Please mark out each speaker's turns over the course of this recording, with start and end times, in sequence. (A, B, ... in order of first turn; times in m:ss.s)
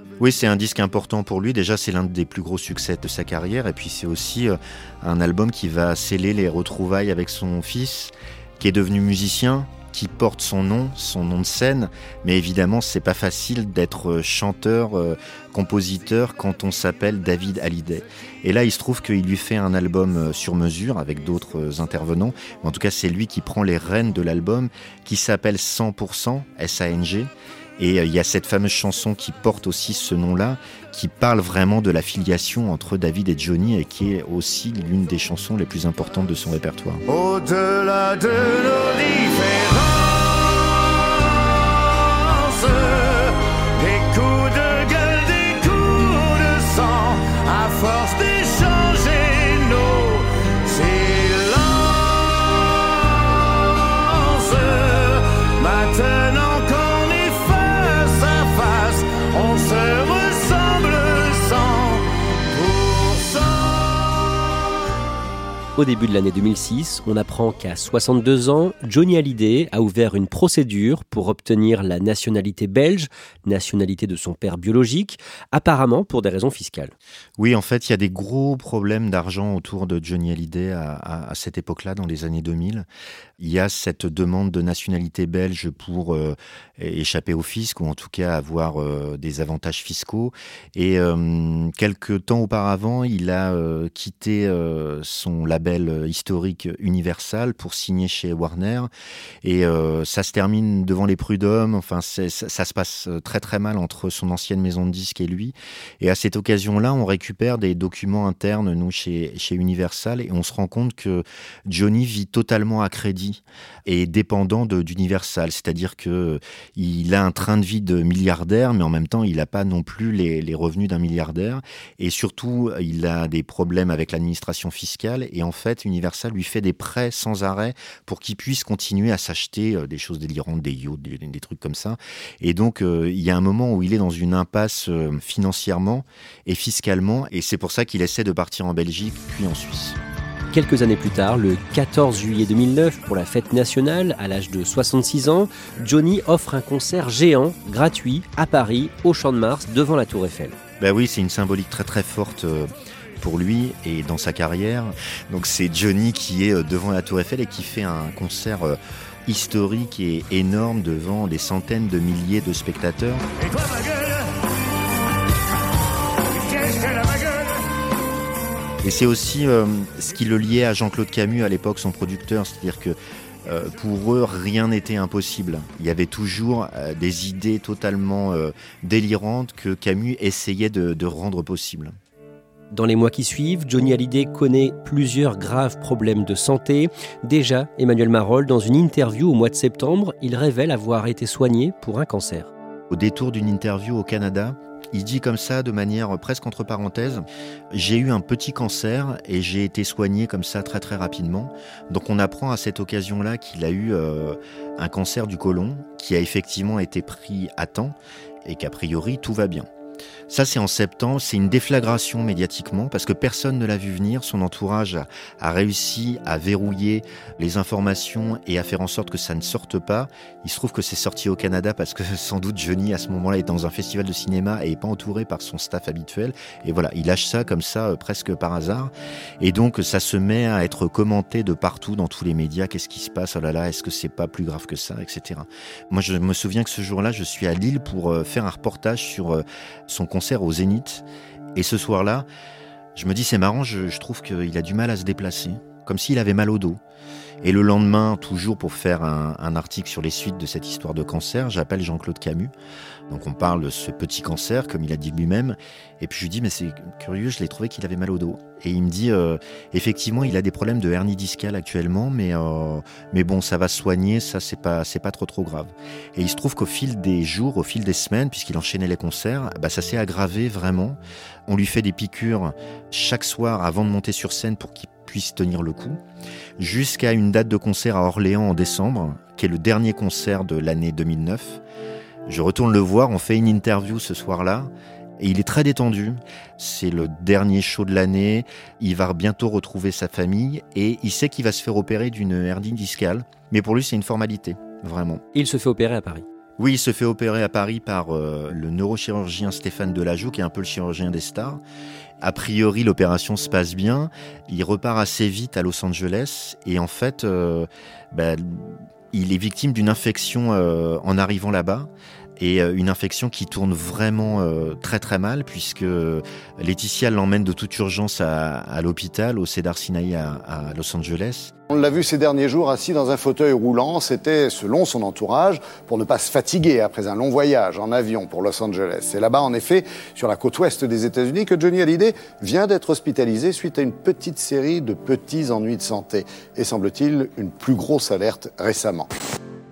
0:00.2-0:37.0 A
0:37.1-1:04.7 B
1:05.8-1:16.9 C
1:17.4-1:22.9 A
1:23.4-1:38.9 A
1:39.4-2:20.0 A
2:20.5-2:30.6 C
2:30.8-2:43.2 A
2:43.6-2:44.2 B
2:46.3-2:47.5 B
2:48.8-3:01.9 A
3:02.7-3:12.5 C
3:12.9-3:29.7 A
3:30.3-4:02.3 A
4:02.9-4:06.8 A
4:07.4-4:12.5 A
4:13.1-4:36.0 A
4:36.6-4:41.6 A
4:42.3-4:55.2 A
4:55.3-4:56.2 C
4:56.6-5:01.6 A
5:02.2-5:21.5 A
5:21.7-5:39.1 D